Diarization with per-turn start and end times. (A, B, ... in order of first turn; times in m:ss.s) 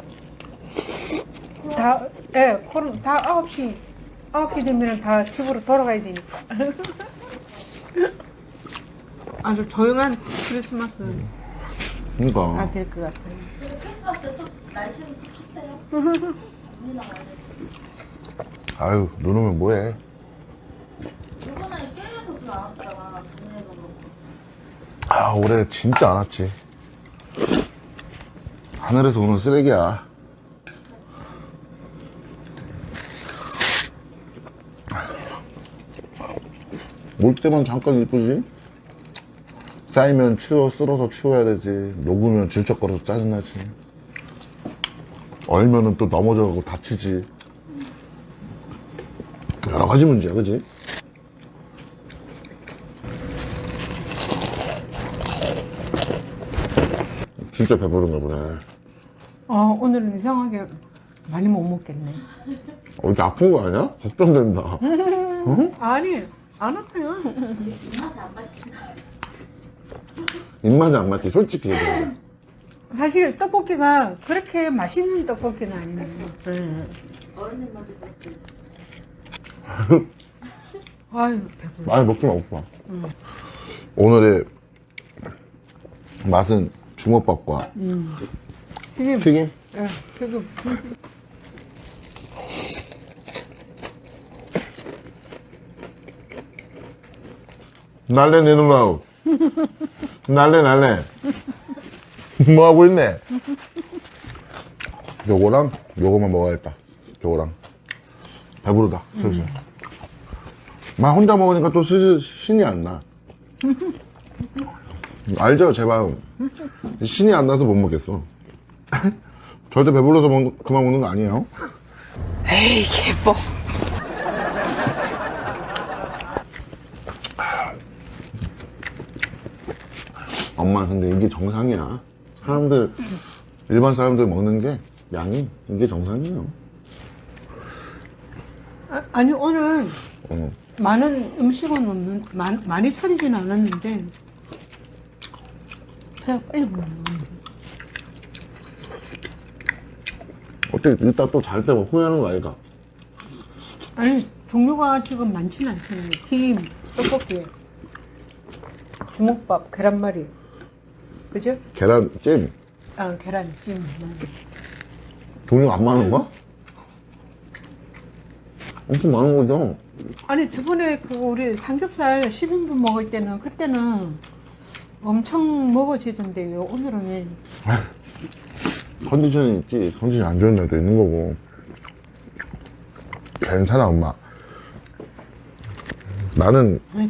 0:01.6-0:01.9 A
0:01.7-0:07.1 B
0:09.4-0:11.3 B
0:12.2-0:12.7 C
0:12.6-0:13.5 B
0:13.6-0:15.9 A
0:16.4-0:17.6 A
0:18.8-0:20.0 C
0:21.4-0:24.2 A
0:25.1-0:26.6 C
0:28.8-0:30.1 C
0:37.2-0:38.5 C
0:39.9-0:43.7 C
0:45.5-0:47.3 C
0:49.6-0:50.7 C
0:57.4-0:58.6 C
0:59.5-1:02.2 B
1:03.0-1:05.7 C
1:04.8-1:07.7 B
1:07.5-1:09.0 A
1:10.6-1:12.2 C
1:12.9-1:17.0 B
1:17.3-1:18.5 A
1:19.7-1:20.1 C
1:21.1-1:22.0 B
1:21.8-1:22.7 C
1:24.0-1:24.5 C
1:26.2-1:27.7 C
1:27.8-1:28.2 B
1:29.0-1:30.8 B
1:29.2-1:29.5 C
1:38.1-1:39.0 C
1:40.3-1:41.1 C
1:42.4-1:43.2 C
1:45.2-1:47.6 C
1:48.6-1:49.5 C
1:51.0-1:53.0 C
1:55.2-1:56.3 C
1:57.0-1:58.3 C
1:58.9-1:59.2 C
1:59.7-2:01.5 C
2:02.5-2:03.4 B
2:10.6-2:13.2 C
2:13.7-2:16.6 C
2:18.9-2:20.0 B
2:20.3-2:20.6 C
2:20.8-2:24.1 B
2:26.2-2:27.4 B
2:30.7-2:32.6 C
2:34.0-2:37.5 B
2:39.1-2:40.3 B
2:41.3-2:41.6 B
2:41.8-2:42.5 C
2:43.0-2:44.4 B
2:45.5-2:46.3 C
2:48.9-2:49.8 C
2:50.3-2:54.2 B
2:55.0-2:57.4 B
2:59.0-3:01.4 C
3:03.4-3:04.2 C
3:06.3-3:06.9 C